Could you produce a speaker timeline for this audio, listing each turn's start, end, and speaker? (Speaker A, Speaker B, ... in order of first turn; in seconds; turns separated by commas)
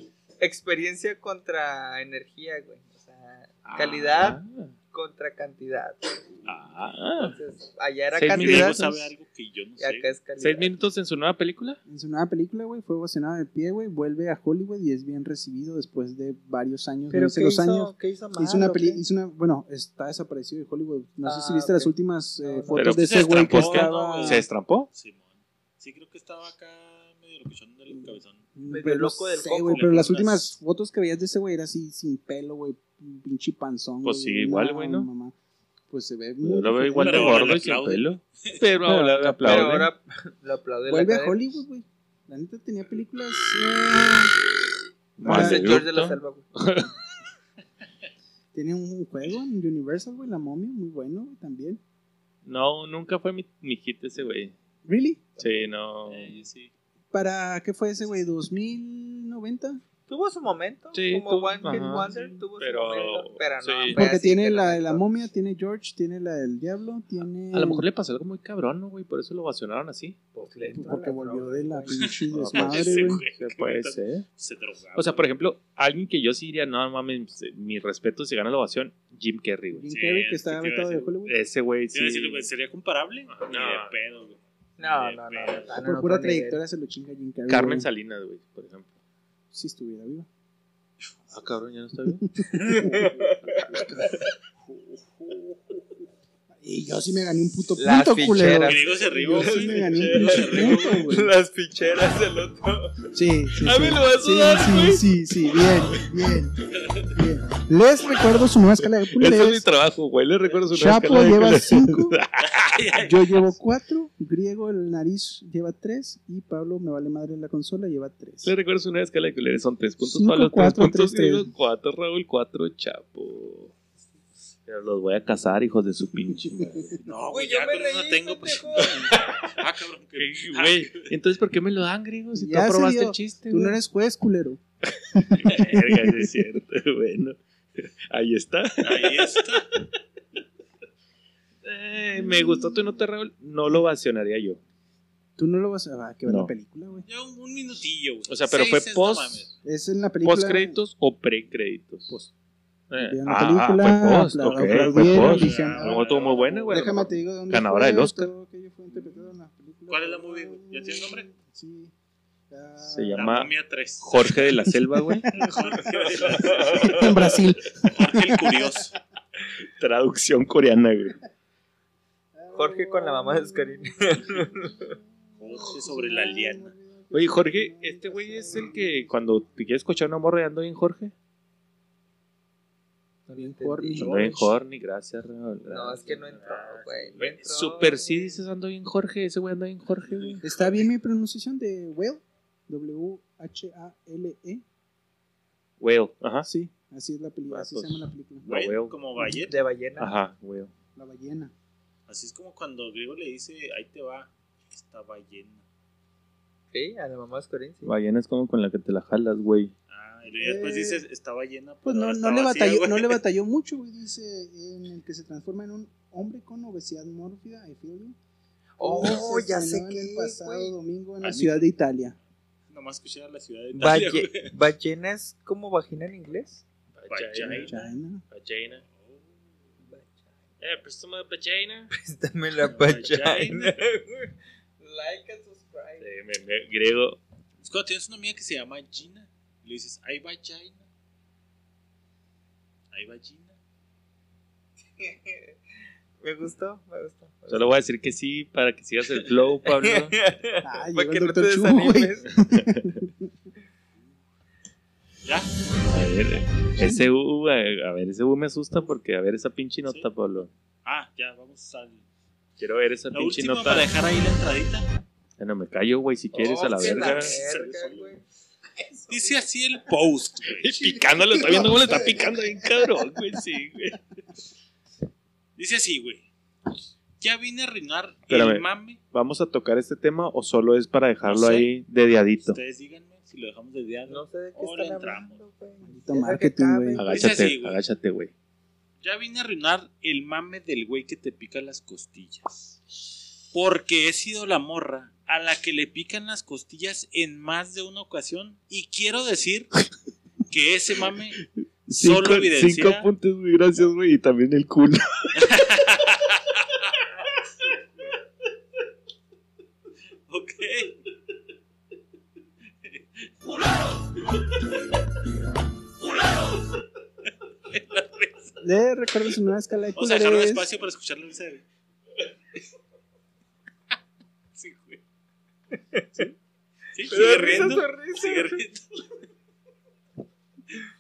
Speaker A: 0.4-4.4, Speaker B: 3.6-4.7, Speaker A: 4.9-6.2, Speaker B: 6.5-7.3, Speaker A: 7.2-8.9, Speaker B: 8.1-9.0, Speaker C: 8.3-10.1, Speaker A: 9.8-10.7, Speaker B: 10.4-11.8, Speaker D: 11.8-24.4, Speaker A: 17.1-19.0, Speaker A: 21.2-22.9, Speaker B: 22.7-24.9, Speaker C: 22.9-28.4, Speaker D: 27.9-35.3, Speaker A: 28.7-30.2, Speaker C: 29.7-30.4, Speaker B: 34.0-35.1, Speaker D: 35.9-37.6, Speaker B: 36.4-39.9, Speaker C: 37.0-38.6, Speaker D: 38.8-39.8, Speaker A: 39.4-41.4, Speaker D: 40.9-44.3, Speaker B: 45.2-46.9, Speaker D: 45.2-45.8, Speaker A: 45.2-46.5, Speaker D: 48.5-51.8, Speaker B: 52.5-54.5, Speaker D: 54.8-55.3, Speaker B: 55.4-56.7, Speaker D: 57.1-59.8, Speaker A: 60.1-65.0, Speaker B: 60.9-64.0, Speaker D: 61.6-62.1, Speaker D: 63.9-67.8, Speaker B: 67.5-70.2, Speaker A: 70.3-72.1, Speaker D: 70.7-73.2, Speaker C: 72.0-75.3, Speaker B: 72.3-74.2, Speaker B: 75.0-79.9, Speaker D: 79.7-81.4, Speaker C: 79.9-81.2, Speaker B: 81.2-82.5, Speaker C: 81.9-85.7, Speaker B: 83.3-83.9, Speaker A: 84.8-86.6, Speaker D: 85.8-87.9, Speaker B: 87.5-88.9, Speaker D: 89.5-90.3, Speaker B: 91.3-94.2, Speaker D: 92.1-93.1, Speaker A: 92.5-94.2, Speaker D: 96.6-101.3, Speaker A: 97.8-103.0, Speaker C: 98.6-101.1, Speaker D: 103.1-109.7, Speaker B: 103.6-105.0, Speaker B: 109.1-112.8, Speaker D: 110.7-112.2, Speaker C: 112.4-113.3, Speaker D: 112.9-118.5, Speaker B: 118.4-123.7, Speaker D: 120.0-121.5, Speaker B: 124.7-127.0, Speaker D: 126.3-126.9, Speaker C: 127.0-131.1, Speaker A: 127.3-128.9, Speaker B: 129.0-129.5, Speaker B: 130.2-133.8, Speaker D: 132.3-134.6, Speaker B: 134.9-139.3, Speaker D: 135.1-136.2, Speaker C: 138.8-139.7, Speaker B: 141.6-144.6, Speaker D: 142.1-142.8, Speaker D: 145.4-147.1, Speaker B: 146.2-146.5, Speaker C: 147.1-149.5, Speaker B: 148.3-149.5, Speaker D: 149.6-150.8, Speaker B: 150.2-152.2, Speaker B: 152.9-158.3, Speaker D: 153.0-161.9, Speaker C: 154.4-156.8, Speaker C: 159.9-161.3, Speaker D: 162.5-163.3, Speaker B: 162.8-165.3, Speaker C: 163.1-164.5, Speaker D: 164.7-165.7, Speaker C: 165.3-167.2, Speaker A: 165.8-166.9, Speaker D: 166.6-168.8, Speaker C: 167.8-168.9, Speaker B: 169.7-171.2, Speaker D: 172.3-179.4, Speaker A: 172.5-174.9, Speaker C: 175.4-176.7, Speaker B: 177.1-181.1, Speaker A: 183.3-184.5, Speaker D: 183.4-184.3, Speaker B: 184.0-186.2, Speaker A: 185.7-188.4, Speaker C: 186.2-187.5, Speaker B: 187.5-190.4, Speaker D: 190.4-194.6, Speaker B: 195.8-196.5, Speaker D: 196.4-198.4, Speaker B: 197.5-198.9, Speaker C: 198.5-199.6, Speaker A: 199.5-200.1, Speaker B: 200.0-200.7, Speaker D: 200.9-201.5, Speaker C: 202.1-205.6, Speaker A: 206.7-207.9, Speaker B: 207.8-209.7, Speaker C: 209.9-213.2, Speaker D: 210.4-211.0, Speaker D: 211.8-218.2, Speaker A: 218.8-220.7, Speaker D: 218.8-222.2, Speaker C: 221.2-221.7, Speaker C: 222.7-224.5, Speaker A: 223.7-226.6, Speaker B: 226.9-228.8, Speaker C: 227.1-227.7, Speaker D: 227.5-228.2, Speaker C: 228.9-229.2, Speaker A: 229.9-230.2, Speaker B: 230.6-231.9, Speaker A: 231.9-236.1, Speaker C: 232.6-233.8, Speaker B: 236.0-237.2, Speaker C: 237.6-240.8, Speaker C: 242.9-243.6, Speaker A: 245.0-245.6, Speaker A: 246.2-247.7, Speaker B: 247.5-250.1, Speaker A: 249.7-252.3, Speaker D: 250.6-253.3, Speaker B: 252.5-252.9, Speaker B: 255.8-260.5, Speaker D: 256.8-257.1, Speaker C: 260.8-262.0, Speaker B: 262.6-263.9, Speaker C: 263.1-264.9, Speaker B: 265.4-267.4, Speaker A: 266.3-268.2, Speaker C: 266.7-268.1, Speaker C: 269.1-271.6, Speaker B: 270.5-274.0, Speaker C: 275.6-276.2, Speaker C: 277.2-279.0, Speaker B: 278.3-282.6, Speaker C: 281.2-281.7, Speaker C: 282.4-285.3, Speaker A: 284.1-287.0, Speaker D: 285.8-287.1, Speaker B: 287.0-288.3, Speaker C: 287.0-287.8, Speaker C: 289.0-292.8, Speaker C: 293.5-299.7, Speaker C: 300.5-301.4, Speaker B: 301.9-305.6, Speaker C: 301.9-303.1, Speaker C: 305.4-306.4, Speaker C: 310.3-310.9, Speaker C: 312.9-313.2, Speaker C: 317.7-318.5, Speaker D: 318.6-320.7, Speaker C: 319.9-321.6, Speaker C: 324.6-325.0, Speaker A: 325.9-326.3, Speaker C: 326.9-329.1, Speaker A: 327.0-328.6